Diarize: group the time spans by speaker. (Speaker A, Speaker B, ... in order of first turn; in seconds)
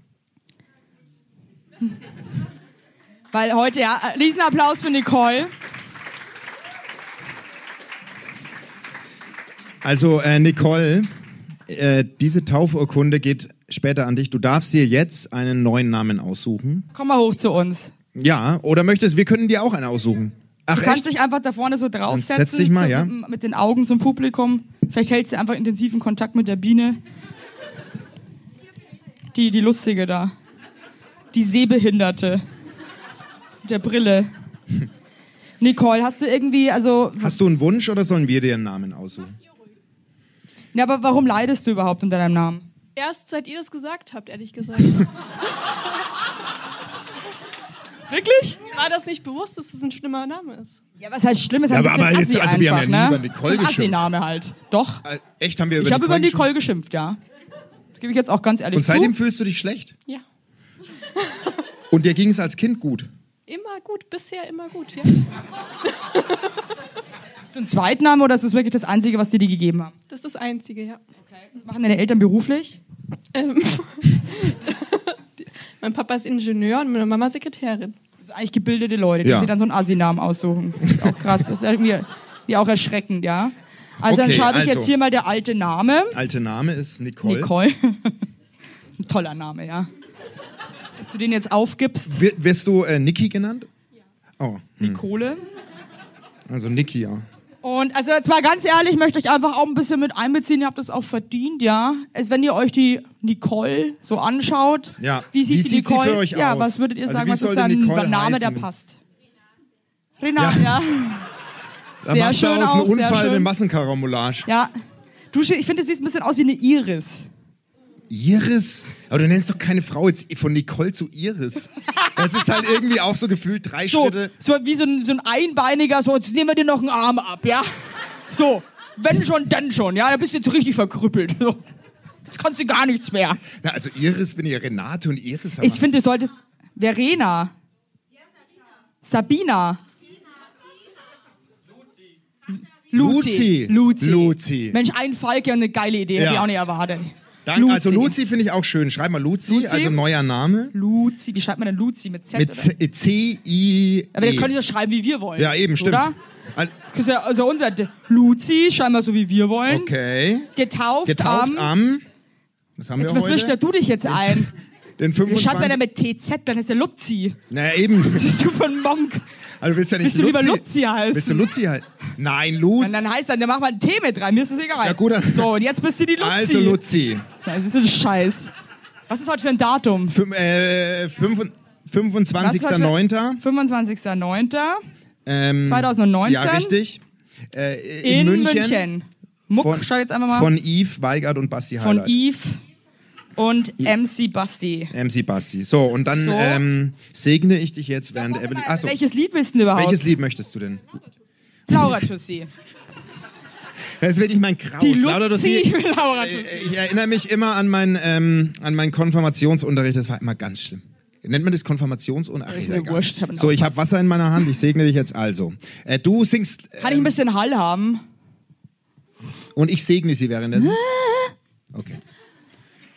Speaker A: 3.3-5.5, 16.9-17.9, 20.7-27.0, 29.3-30.3, 31.3-32.4, 33.6-34.3, 35.6-37.4, 40.7-42.7, 48.1-48.6, 51.0-55.0, 55.8-57.2, 58.0-59.1, 67.5-69.9, 71.4-72.8, 78.2-86.2, 87.2-88.2, 89.0-89.9, 91.0-92.2, 94.8-95.4, 97.6-109.0, 110.2-111.3, 112.0-113.5, 114.5-114.7, 115.3-117.3, 123.8-127.7, 128.3-131.6, 132.3-133.4, 135.6-137.5, 139.0-139.8, 142.9-148.2, 149.5-150.0, 150.7-152.7, 154.1-156.2, 156.9-159.9, 160.6-161.7, 163.0-164.5, 165.2-167.4, 168.1-169.2, 170.0-171.5, 172.8-176.8, 177.4-178.5, 179.1-180.2, 182.4-184.8, 185.6-186.8, 188.0-190.5, 191.8-192.6, 193.3-194.9, 196.1-196.6, 198.2-200.1, 201.7-202.5, 204.8-206.7, 212.5-213.8, 216.8-218.0, 220.5-221.3
Speaker B: 9.8-11.1, 11.7-16.9, 18.1-21.1, 22.1-23.1, 37.2-39.3, 51.7-54.0, 55.0-56.5, 58.7-59.9, 61.9-63.1, 79.2-79.5, 84.0-84.9, 86.1-87.5, 92.1-93.7, 94.4-95.0, 96.5-97.2, 105.0-108.7, 110.4-110.8, 112.0-114.5, 118.1-124.3, 133.6-135.8, 142.9-144.8, 146.2-146.5, 147.4-150.7, 152.3-154.5, 155.4-156.7, 159.7-160.5, 161.0-162.0, 162.8-163.6, 164.1-164.4, 165.0-165.8, 167.5-168.3, 169.6-173.0, 174.8-175.5, 176.2-177.2, 180.1-183.4, 185.2-187.0, 187.5-188.9, 189.5-192.1, 194.9-199.0, 199.7-200.8, 204.0-217.1, 219.5-220.8, 221.7-222.0
Speaker C: 42.9-45.1, 48.6-50.8, 63.5-65.2, 70.1-71.0, 73.3-78.0